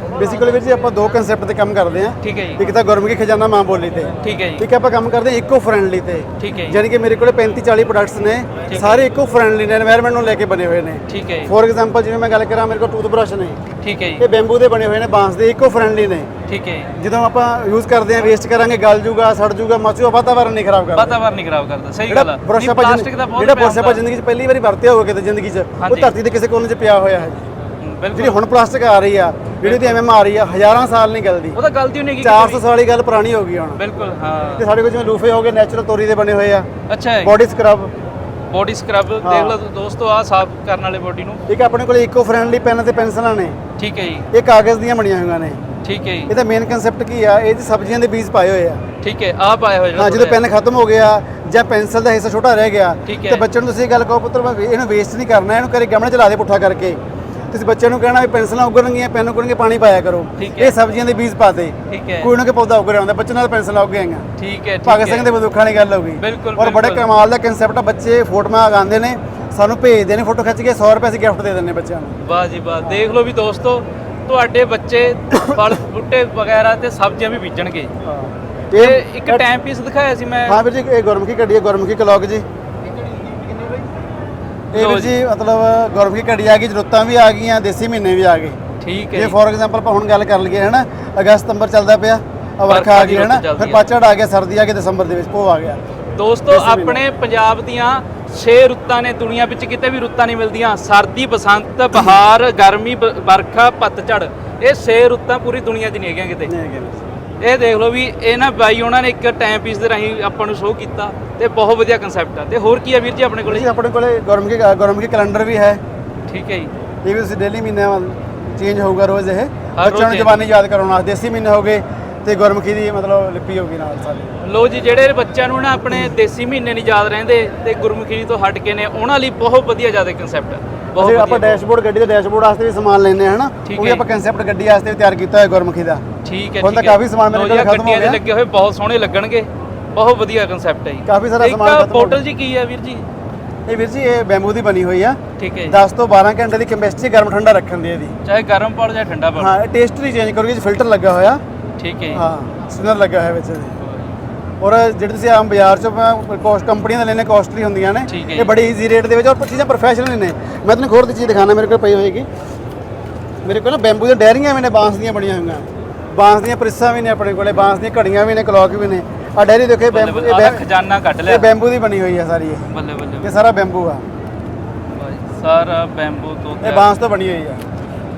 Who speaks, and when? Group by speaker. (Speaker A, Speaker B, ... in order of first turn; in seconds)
Speaker A: 0.1-13.6, 14.2-16.3, 17.0-21.2, 22.1-27.5, 28.1-31.6, 32.2-33.8, 34.6-36.7, 37.2-37.9, 39.2-39.6, 41.5-43.6, 44.3-45.6, 46.3-48.8, 50.0-57.0, 57.5-64.3, 64.8-72.2, 75.3-75.6, 78.0-79.5, 80.5-82.5, 84.7-88.6, 89.1-95.8, 96.5-97.0, 106.5-107.0, 113.5-115.8, 117.0-124.4, 131.0-136.0, 136.6-138.2, 141.1-142.2, 143.7-148.1, 149.4-151.4, 152.1-153.8, 154.6-162.3, 163.4-170.7, 171.2-172.7, 173.2-174.0, 176.6-177.6
Speaker B: 2.2-2.6, 4.2-4.7, 6.4-6.8, 8.7-9.1, 11.1-11.5, 13.8-14.2, 16.5-16.9, 21.0-24.0, 25.8-26.1, 27.8-28.4, 29.6-30.1, 31.6-32.6, 33.8-34.6, 36.9-37.3, 38.5-41.4, 43.8-44.3, 45.8-46.3, 49.0-50.4, 53.1-53.4, 60.4-60.8, 61.9-62.3, 64.4-65.3, 66.2-67.0, 72.2-77.9, 78.7-80.6, 84.7-85.2, 88.8-89.4, 92.7-93.9, 96.2-106.5, 107.4-113.7, 116.3-116.7, 119.8-120.4, 124.4-131.6, 133.7-134.0, 136.2-143.1, 145.4-145.8, 148.2-149.5, 151.8-152.2, 158.1-158.5, 169.9-171.5, 172.7-173.3, 174.9-176.9